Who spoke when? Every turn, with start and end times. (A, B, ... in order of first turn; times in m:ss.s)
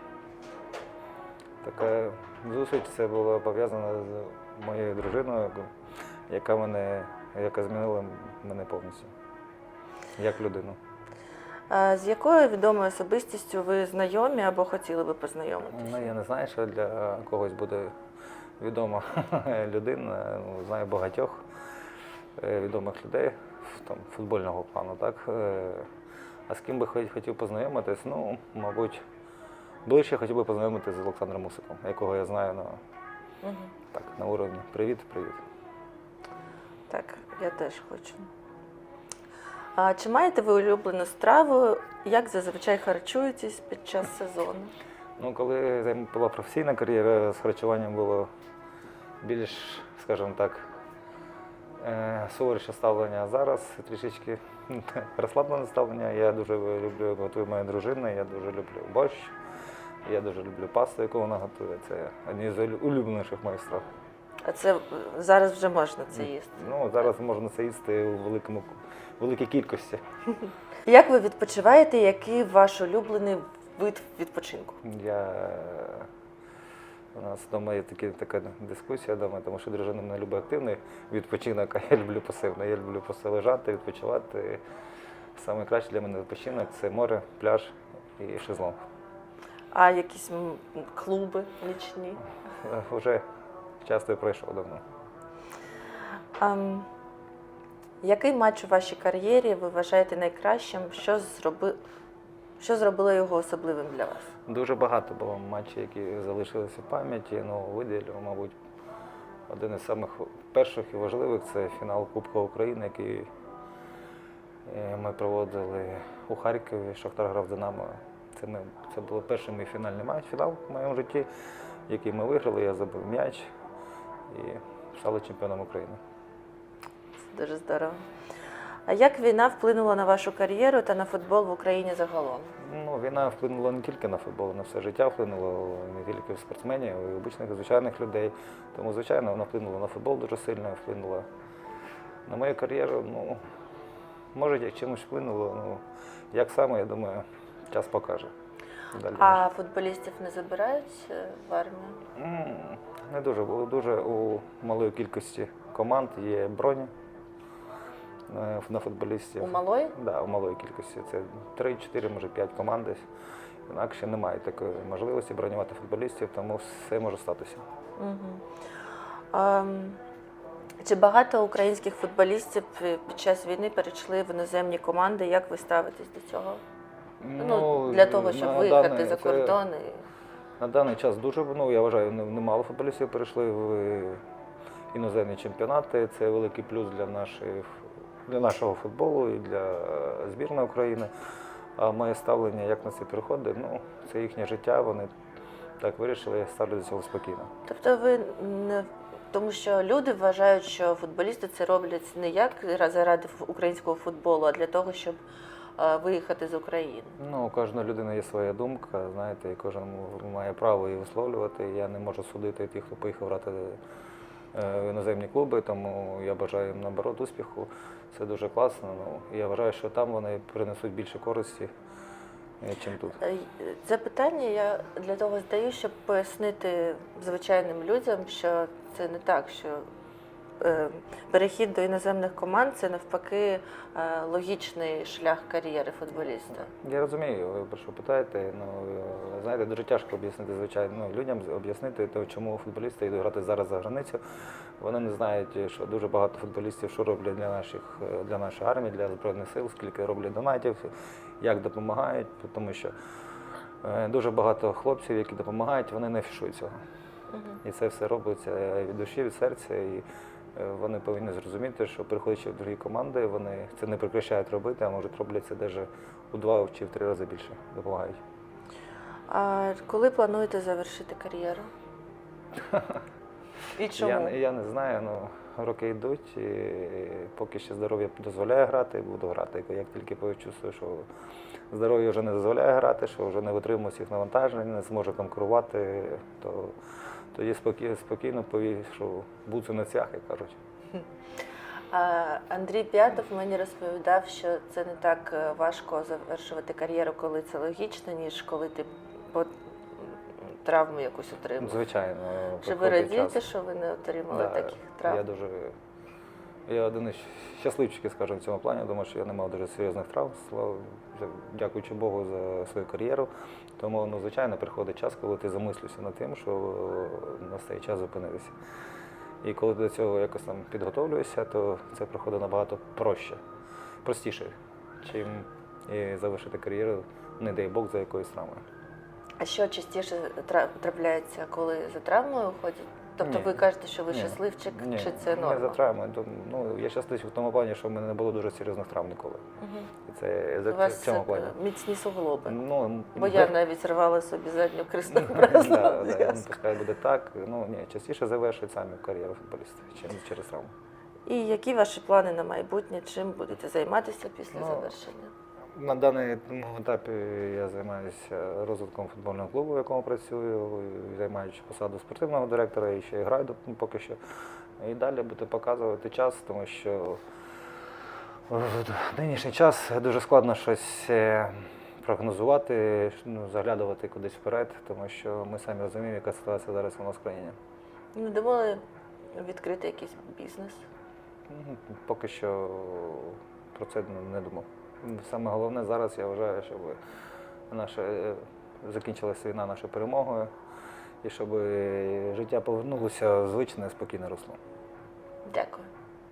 0:01.6-0:05.7 A
0:06.3-0:09.1 A
0:10.2-0:10.8 A
0:11.7-0:16.1 B
0:15.7-0:17.9 A
0:18.6-0:21.4 A
0:22.4-0:25.9 A
0:26.5-0:29.0 A
0:29.8-0:32.8 A
0:33.4-0:33.7 B
0:33.9-0:35.4 A
0:36.9-0:38.3 B
0:39.8-0:44.7 B
0:45.2-0:48.3 A
0:49.2-0:50.7 A
0:51.8-0:59.3 A
1:00.0-1:03.8 A
1:04.4-1:06.7 B
1:06.1-1:10.0 A
1:10.8-1:14.8 B
1:14.8-1:16.1 A
1:17.1-1:24.6 A
1:25.4-1:28.8 A
1:29.7-1:32.2 B
1:32.6-1:33.2 A
1:33.8-1:34.8 A
1:36.4-1:36.9 B
1:38.0-1:41.8 B
1:42.6-1:44.3 B
1:44.5-1:48.5 A
1:49.5-1:53.3 A
1:54.6-2:01.3 A
2:01.9-2:03.5 A
2:04.3-2:06.0 A
2:07.2-2:08.0 B
2:08.9-2:12.5 B
2:12.6-2:21.2 A
2:22.3-2:23.4 A
2:24.3-2:28.3 A
2:28.9-2:29.4 A
2:29.1-2:32.0 B
2:32.2-2:36.9 A
2:38.3-2:43.0 A
2:39.4-2:39.9 B
2:43.7-2:47.6 A
2:48.0-2:48.4 B
2:49.3-2:50.0 B
2:50.8-2:56.6 B
2:57.2-2:59.6 A
2:57.4-3:00.0 B
3:00.6-3:04.2 A
3:04.9-3:11.1 A
3:11.8-3:15.1 A
3:15.8-3:17.5 A
3:17.6-3:25.2 B
3:25.8-3:27.2 B
3:27.2-3:33.8 A
3:34.5-3:41.7 A
3:42.6-3:43.2 A
3:43.2-3:49.8 B
3:50.6-3:56.7 B
3:56.7-4:04.2 A
4:04.8-4:12.9 A
4:13.8-4:16.7 A
4:17.3-4:17.6 B
4:17.6-4:28.2 A
4:29.3-4:31.7 B
4:32.6-4:33.0 A
4:33.8-4:34.3 B
4:33.9-4:41.1 A
4:41.7-4:46.8 A
4:47.3-4:50.6 A
4:51.9-5:01.8 B
5:01.6-5:03.4 A
5:02.6-5:05.2 B
5:04.3-5:05.8 A
5:06.7-5:18.6 A
5:19.4-5:23.4 A
5:24.0-5:28.6 A
5:29.4-5:35.8 B
5:33.2-5:39.4 A
5:39.6-5:39.9 B
5:40.1-5:41.5 A
5:40.7-5:42.6 B
5:42.4-5:43.5 A
5:43.1-5:46.5 B
5:45.1-5:50.7 A
5:51.2-5:55.3 B
5:54.5-5:54.9 A
5:55.7-6:04.2 A
6:04.8-6:07.2 A
6:08.5-6:17.6 A
6:18.1-6:18.8 B
6:19.3-6:20.8 B
6:21.5-6:27.0 A
6:27.7-6:30.5 A
6:31.2-6:34.6 A
6:35.4-6:35.9 B